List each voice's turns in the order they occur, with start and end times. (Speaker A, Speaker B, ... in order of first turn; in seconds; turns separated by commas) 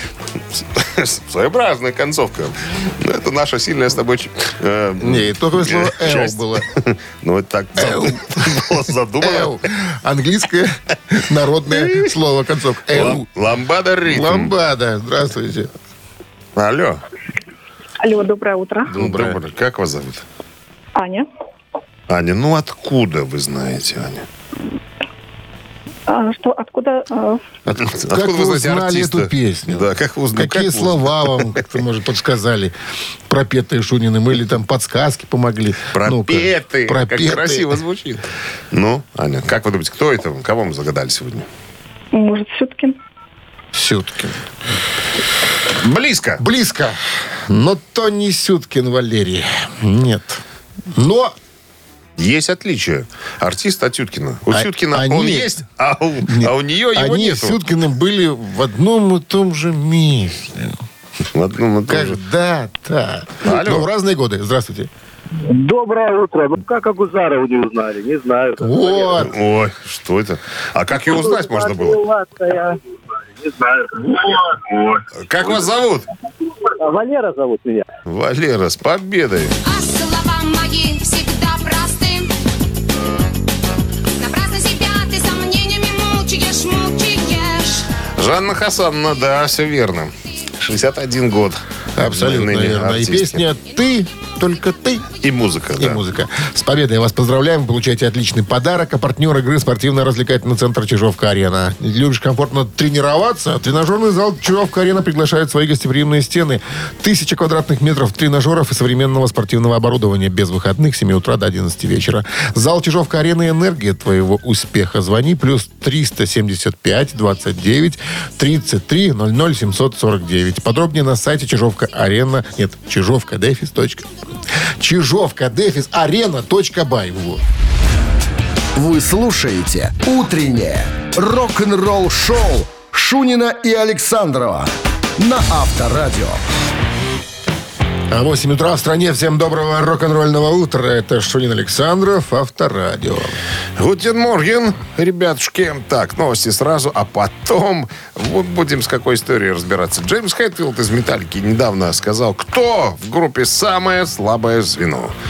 Speaker A: 0.5-9.6, Speaker B: 5.0-6.7, Speaker B: 7.8-13.2, Speaker A: 11.7-12.1, Speaker A: 12.9-14.6, Speaker B: 14.1-15.7, Speaker A: 16.6-17.0, Speaker C: 18.0-18.9, Speaker B: 18.9-19.4, Speaker A: 18.9-20.2, Speaker C: 20.9-21.3, Speaker A: 22.1-24.3, Speaker C: 26.1-27.4, Speaker B: 27.7-32.7, Speaker A: 27.8-31.6, Speaker B: 33.3-37.7, Speaker A: 35.9-41.5, Speaker C: 42.1-43.0, Speaker B: 43.7-44.4, Speaker A: 45.8-46.4, Speaker B: 46.4-51.4, Speaker A: 52.2-57.6, Speaker B: 54.5-55.5, Speaker B: 56.2-60.8, Speaker A: 61.3-62.2, Speaker B: 61.9-64.9, Speaker A: 63.4-63.9, Speaker D: 65.5-69.2, Speaker B: 68.6-69.3, Speaker A: 69.2-72.0, Speaker D: 71.0-72.8, Speaker D: 73.4-74.8, Speaker A: 75.1-76.1, Speaker D: 76.8-77.8, Speaker A: 78.1-79.5, Speaker E: 79.7-82.3, Speaker E: 84.2-87.9, Speaker A: 88.2-93.5, Speaker B: 92.0-95.1, Speaker A: 95.2-96.0, Speaker B: 95.8-124.1, Speaker B: 124.8-127.4, Speaker F: 128.8-136.4, Speaker B: 138.1-143.4, Speaker A: 143.8-155.1